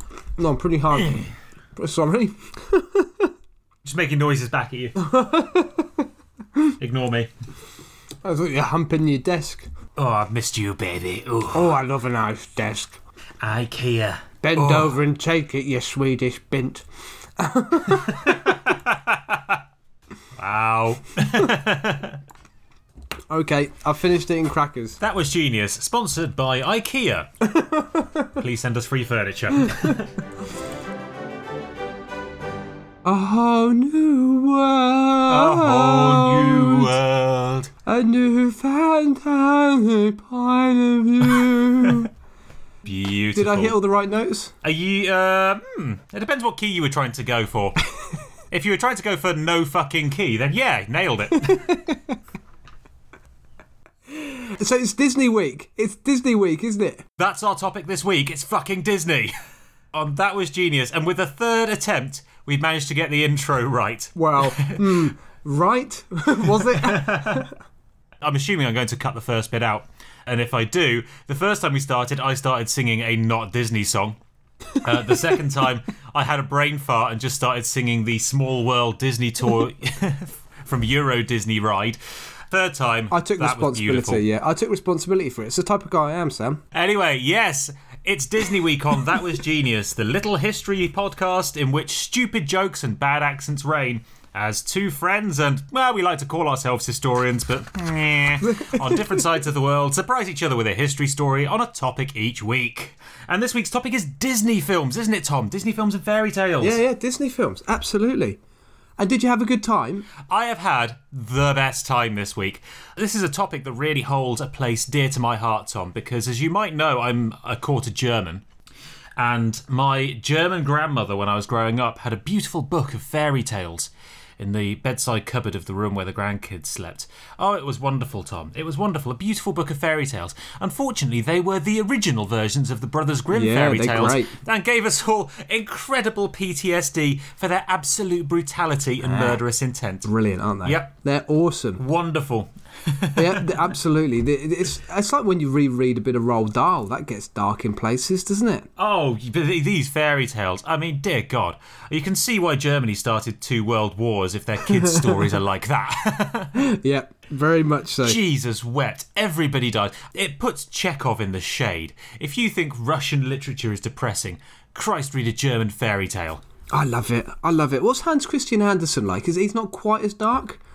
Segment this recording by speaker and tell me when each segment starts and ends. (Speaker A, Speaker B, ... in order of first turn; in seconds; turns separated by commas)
Speaker A: 0.4-3.3, Speaker B: 3.8-4.9, Speaker A: 5.0-6.0, Speaker B: 6.8-7.3, Speaker A: 8.2-9.7, Speaker B: 9.9-11.7, Speaker A: 11.5-12.9, Speaker B: 13.4-14.9, Speaker A: 14.4-16.8, Speaker A: 17.4-18.4, Speaker B: 17.9-19.6, Speaker B: 20.4-22.2, Speaker A: 23.3-25.0, Speaker B: 25.0-27.3, Speaker A: 27.4-28.4, Speaker B: 28.4-30.1, Speaker A: 29.7-30.0, Speaker A: 33.0-36.9, Speaker B: 35.3-37.7, Speaker A: 37.9-42.1, Speaker B: 42.8-43.8, Speaker A: 43.3-44.5, Speaker B: 44.6-47.8, Speaker B: 48.5-51.7, Speaker A: 51.4-52.1, Speaker A: 54.1-57.0, Speaker B: 57.2-59.3, Speaker B: 59.9-65.1, Speaker A: 64.1-67.5, Speaker B: 66.5-67.5, Speaker B: 68.2-74.2, Speaker B: 74.8-82.0, Speaker B: 82.5-84.2, Speaker A: 83.1-86.6, Speaker B: 86.7-106.8, Speaker A: 98.4-99.2, Speaker A: 106.6-108.4, Speaker A: 109.0-110.1, Speaker B: 110.2-118.4, Speaker B: 119.2-140.1, Speaker A: 133.3-134.3, Speaker A: 139.0-139.4, Speaker A: 140.0-141.8, Speaker B: 140.6-140.9, Speaker B: 141.8-143.6, Speaker A: 143.2-148.7, Speaker B: 148.8-156.5, Speaker A: 154.6-155.3, Speaker A: 156.5-158.2, Speaker B: 158.0-166.4, Speaker A: 166.7-170.6